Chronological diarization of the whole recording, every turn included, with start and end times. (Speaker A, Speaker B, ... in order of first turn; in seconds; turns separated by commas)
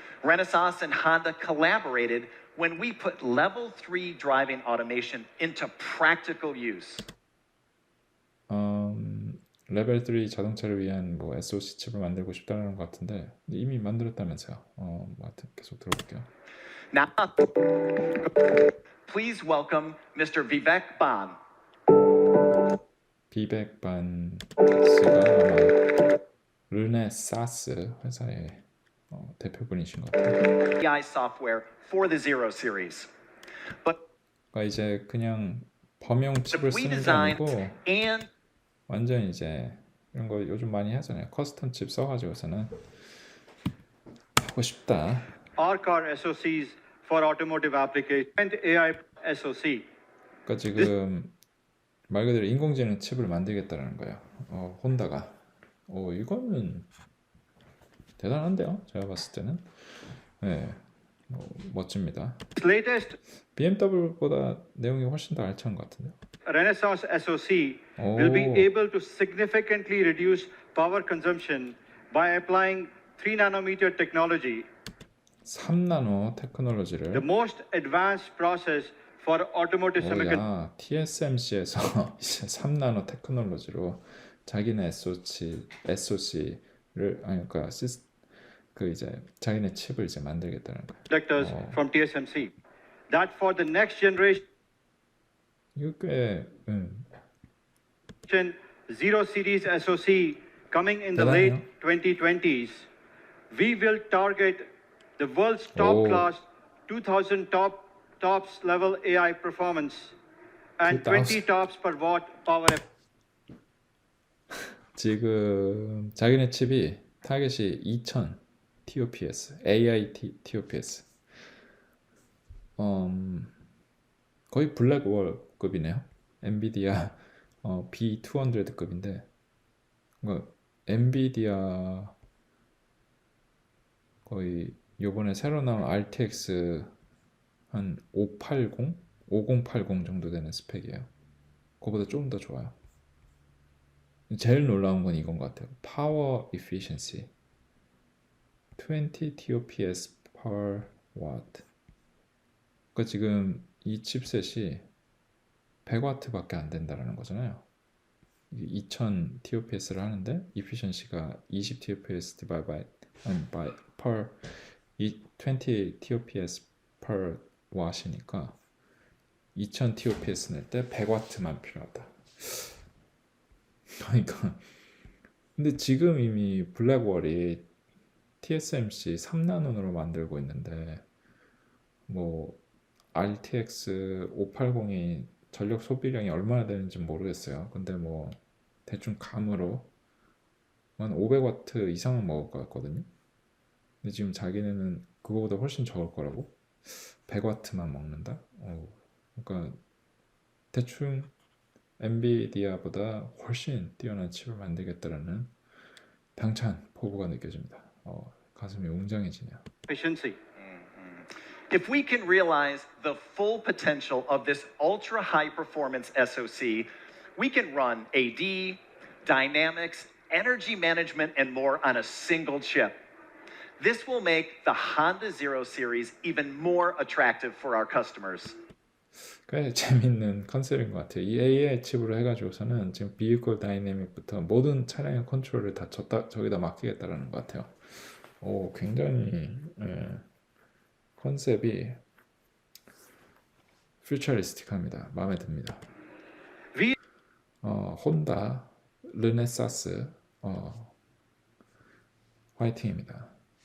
Speaker A: 0.2-7.0, Speaker B: 8.5-16.3, Speaker A: 16.9-17.5, Speaker A: 19.1-21.4, Speaker B: 23.3-25.8, Speaker B: 26.7-30.5, Speaker A: 30.8-33.1, Speaker B: 34.5-37.8, Speaker A: 36.5-38.3, Speaker B: 38.9-43.0, Speaker B: 44.4-45.3, Speaker C: 45.6-49.9, Speaker B: 50.5-51.4, Speaker B: 52.1-56.9, Speaker B: 58.2-62.4, Speaker C: 62.6-63.2, Speaker B: 63.5-66.2, Speaker C: 66.5-74.7, Speaker B: 68.0-68.7, Speaker B: 75.4-77.3, Speaker C: 77.1-80.4, Speaker B: 80.0-88.1, Speaker B: 88.7-91.8, Speaker C: 91.1-92.5, Speaker C: 93.1-94.4, Speaker B: 95.7-97.1, Speaker C: 98.3-102.9, Speaker B: 101.1-101.7, Speaker C: 103.5-110.2, Speaker B: 105.7-106.3, Speaker C: 110.8-112.8, Speaker B: 110.8-111.5, Speaker B: 114.9-121.1, Speaker B: 122.8-123.6, Speaker B: 124.5-129.3, Speaker B: 130.2-132.2, Speaker B: 134.2-136.9, Speaker B: 137.7-141.1, Speaker B: 141.8-142.8, Speaker B: 144.3-147.3, Speaker B: 148.8-151.7, Speaker B: 152.9-154.9, Speaker B: 155.8-157.6, Speaker B: 158.5-168.6, Speaker B: 169.5-172.8, Speaker B: 174.0-174.6, Speaker B: 175.6-177.7, Speaker B: 178.4-181.0, Speaker B: 182.1-182.6, Speaker B: 183.1-189.9, Speaker B: 191.0-193.1, Speaker B: 194.0-199.8, Speaker B: 200.7-201.3, Speaker B: 202.0-205.5, Speaker B: 206.3-209.6, Speaker C: 209.9-210.4, Speaker A: 210.6-223.0, Speaker A: 223.8-228.6, Speaker B: 229.4-240.3, Speaker B: 241.2-242.0, Speaker B: 244.0-245.9, Speaker B: 247.6-250.9, Speaker B: 252.6-253.4